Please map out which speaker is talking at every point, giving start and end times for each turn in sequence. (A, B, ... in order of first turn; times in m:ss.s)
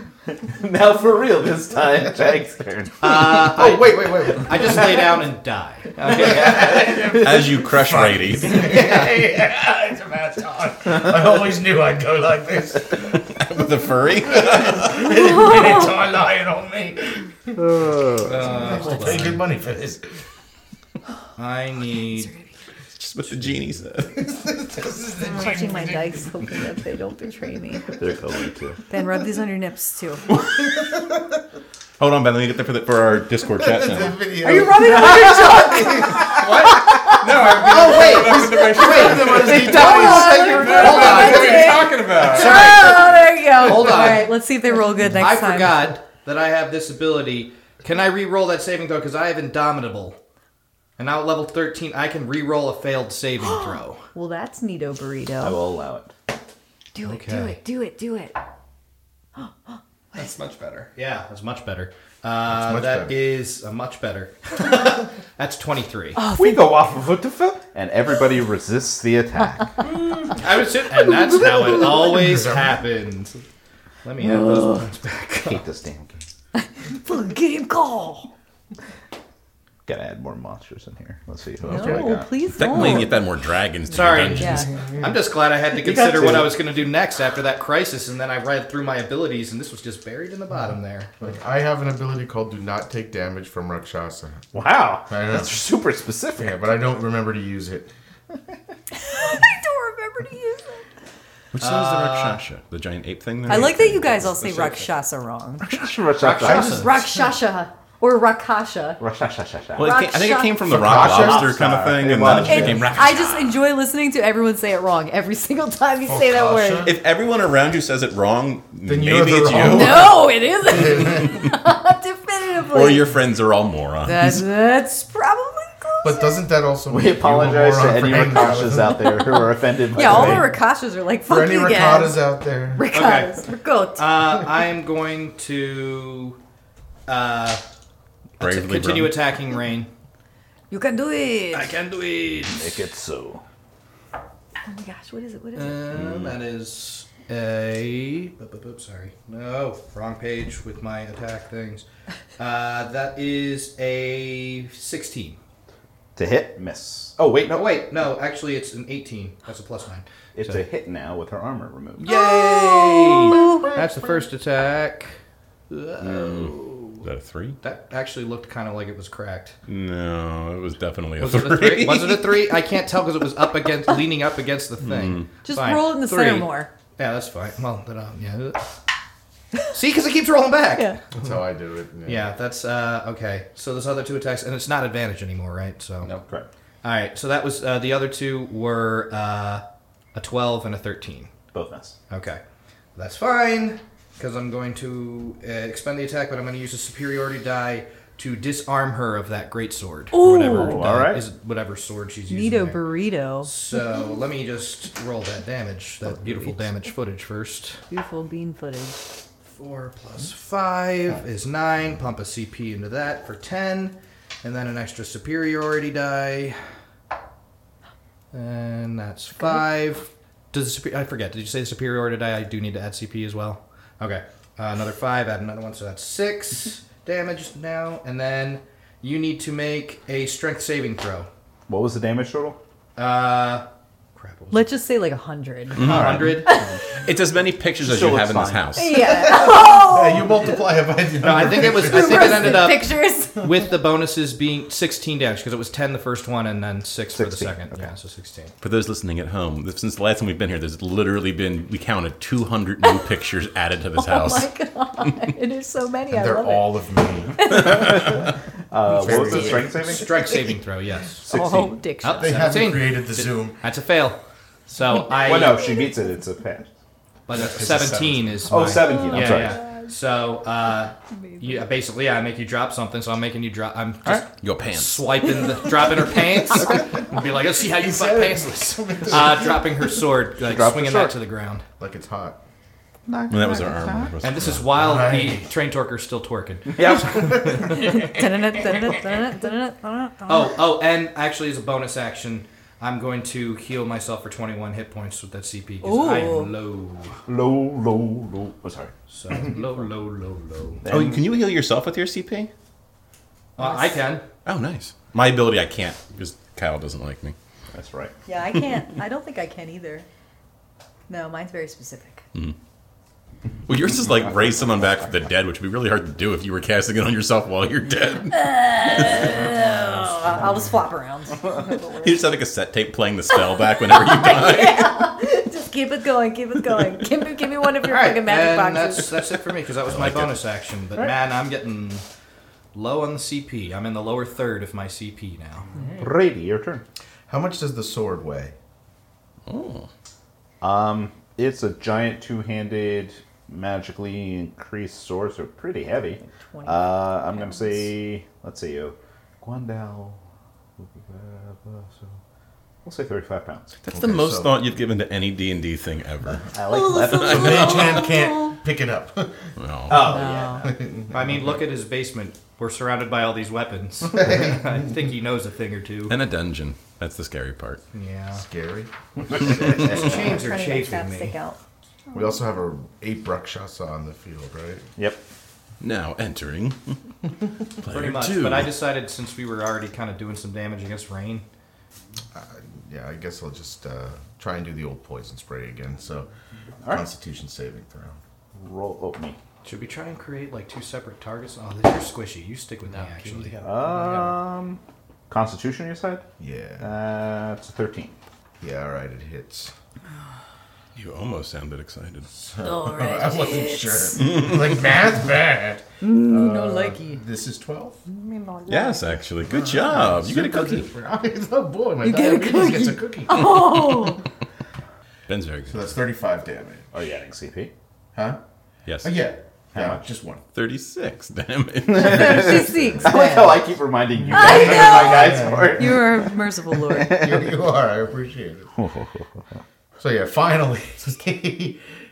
0:00.4-0:03.3 A
0:03.0-0:07.0 B
0:03.1-0:05.2 C
0:06.0-0:17.6 C
0:07.1-0:08.7 D
0:08.7-0:09.0 B
0:13.3-0:15.1 D
0:17.8-0:18.3 A
0:18.2-0:19.4 B
0:18.4-0:20.1 C
0:18.8-0:19.2 E
0:21.4-0:22.3 B
0:22.2-0:22.5 E
0:23.0-0:24.2 D
0:24.2-0:26.2 C
0:25.2-0:27.9 E
0:28.0-0:28.8 A
0:28.9-0:30.3 E
0:32.0-0:34.2 D
0:33.5-0:36.4 C
0:34.4-0:36.4 E
0:34.9-0:36.2 A
0:36.2-0:43.0 F
0:37.6-0:50.2 B
0:37.7-0:41.9 C
0:39.6-0:45.8 E
0:51.0-0:54.1 B
0:53.4-0:55.6 E
0:55.4-0:56.1 A
0:57.0-0:58.4 E
0:57.0-0:57.6 B
1:00.1-1:00.9 F
1:01.0-1:06.2 B
1:02.5-1:03.2 C
1:06.2-1:06.8 E
1:06.3-1:09.8 A
1:09.8-1:13.4 B
1:11.6-1:12.8 C
1:14.0-1:15.6 B
1:14.3-1:14.8 E
1:15.3-1:16.2 A
1:16.6-1:18.3 E
1:19.9-1:22.3 A
1:21.6-1:22.2 C
1:21.7-1:23.2 E
1:22.5-1:24.7 D
1:23.9-1:31.1 B
1:24.3-1:24.7 E
1:25.8-1:26.6 A
1:31.2-1:34.5 C
1:34.5-1:36.6 A
1:35.1-1:35.5 C
1:36.4-1:37.9 C
1:39.0-1:40.8 E
1:41.5-1:44.4 D
1:41.6-1:42.4 B
1:43.5-1:49.0 E
1:44.2-1:44.9 F
1:45.6-1:46.7 A
1:46.2-1:47.0 B
1:49.0-1:50.0 A
1:49.8-1:53.5 D
1:49.8-1:50.6 E
1:50.6-1:53.0 C
1:50.7-1:53.0 A
1:52.5-1:56.9 E
1:56.0-1:57.0 C
1:56.8-2:00.2 D
1:58.8-2:00.2 C
1:59.6-2:03.1 E
2:00.8-2:01.3 C
2:02.7-2:04.4 D
2:04.0-2:06.5 E
2:06.0-2:09.3 C
2:06.9-2:10.5 A
2:09.2-2:12.2 E
2:10.0-2:10.6 C
2:11.2-2:13.0 C
2:12.8-2:14.1 E
2:12.9-2:13.4 B
2:14.0-2:16.4 B
2:17.1-2:17.6 B
2:18.4-2:19.9 B
2:18.4-2:19.2 D
2:20.7-2:21.8 E
2:21.5-2:22.8 B
2:22.5-2:23.4 A
2:24.7-2:25.9 E
2:25.6-2:31.8 B
2:26.0-2:26.4 A
2:32.4-2:35.4 B
2:36.2-2:37.8 A
2:37.4-2:40.6 B
2:40.4-2:42.2 A
2:42.0-2:45.2 B
2:42.1-2:43.7 E
2:45.7-2:47.0 B
2:46.0-2:46.5 A
2:46.2-2:46.5 D
2:47.0-2:47.6 D
2:47.6-2:49.6 B
2:49.7-2:52.6 D
2:51.2-2:58.6 B
2:54.8-2:55.4 D
2:55.4-2:56.7 E
2:59.7-3:01.0 B
3:01.1-3:02.3 C
3:02.0-3:06.1 B
3:06.0-3:06.5 A
3:06.8-3:11.3 B
3:11.5-3:12.0 A
3:12.1-3:12.4 B
3:13.0-3:27.8 B
3:20.1-3:20.8 E
3:20.4-3:21.3 A
3:22.3-3:23.5 E
3:26.1-3:26.6 E
3:27.9-3:29.0 E
3:29.5-3:36.6 B
3:38.3-3:51.3 B
3:51.7-3:52.6 A
3:53.0-3:54.7 B
3:54.5-3:56.8 E
3:55.8-3:56.5 D
3:55.8-3:56.7 B
3:57.0-3:59.2 D
3:57.8-3:58.8 A
3:58.8-4:00.6 E
3:59.2-4:02.7 C
4:01.2-4:08.5 B
4:01.7-4:03.5 E
4:07.1-4:07.9 A
4:08.6-4:14.5 D
4:14.0-4:16.8 E
4:16.1-4:18.0 C
4:17.4-4:18.2 E
4:17.5-4:20.4 A
4:18.9-4:20.3 C
4:19.1-4:21.3 B
4:21.2-4:21.8 A
4:21.3-4:22.5 E
4:22.0-4:25.7 B
4:22.2-4:23.6 C
4:25.0-4:26.7 A
4:25.3-4:25.9 E
4:27.3-4:41.7 B
4:27.3-4:28.5 F
4:28.5-4:29.6 A
4:28.8-4:29.9 E
4:31.1-4:31.7 E
4:34.4-4:35.4 D
4:37.2-4:39.9 C
4:40.4-4:41.2 A
4:41.8-4:42.4 C
4:43.1-4:44.1 A
4:43.3-4:44.7 D
4:44.2-4:48.0 B
4:44.7-4:45.5 C
4:46.7-4:47.8 A
4:47.2-4:48.9 C
4:47.6-4:50.6 E
4:50.3-4:57.2 B
4:55.8-4:56.5 E
4:57.3-4:59.4 A
4:59.1-5:01.0 B
5:00.8-5:01.3 A
5:00.9-5:02.5 D
5:03.6-5:04.3 B
5:04.4-5:07.4 D
5:07.7-5:08.1 A
5:08.3-5:10.1 E
5:11.1-5:12.2 E
5:13.7-5:19.3 D
5:18.3-5:22.3 E
5:22.0-5:25.0 D
5:23.3-5:29.1 E
5:27.8-5:32.0 B
5:29.9-5:30.4 D
5:32.7-5:36.1 B
5:36.0-5:36.8 A
5:37.3-5:38.6 C
5:39.5-5:39.9 D
5:40.6-5:50.2 A
5:46.4-5:47.9 E
5:50.8-5:52.2 A
5:52.8-5:53.8 A
5:53.8-5:56.5 D
5:53.9-5:54.6 C
5:56.5-5:57.9 A
5:56.7-5:58.6 E
5:57.1-5:57.8 D
5:57.2-5:59.5 C
5:59.6-6:00.0 D
5:59.9-6:00.8 A
6:00.0-6:00.7 E
6:00.7-6:01.4 C
6:01.1-6:06.2 B
6:06.1-6:07.8 D
6:07.9-6:08.4 B
6:08.4-6:10.4 C
6:09.8-6:11.4 B
6:09.9-6:11.6 E
6:12.1-6:14.9 C
6:15.8-6:16.9 D
6:17.8-6:18.7 D
6:17.8-6:21.4 B
6:22.3-6:26.3 C
6:26.9-6:28.2 C
6:28.6-6:29.4 A
6:29.6-6:33.6 B
6:32.9-6:34.3 F
6:33.6-6:36.3 A
6:36.4-6:36.9 C
6:36.8-6:38.2 A
6:38.6-6:39.7 C
6:41.0-6:42.3 D
6:42.3-6:48.0 C
6:42.6-6:44.3 E
6:46.0-6:47.2 E
6:48.1-6:49.2 E
6:48.7-6:50.9 D
6:49.5-6:54.0 C
6:52.0-6:54.2 E
6:55.3-6:56.0 D
6:55.7-6:56.9 C
6:56.9-6:57.7 A
6:58.9-6:59.2 D
6:59.0-7:00.4 C
6:59.7-7:00.0 A
7:00.5-7:02.7 D
7:01.9-7:06.3 A
7:02.0-7:03.7 E
7:04.3-7:06.0 C
7:04.3-7:07.2 E
7:06.9-7:07.6 A
7:07.0-7:08.7 C
7:08.8-7:09.6 A
7:10.0-7:11.8 C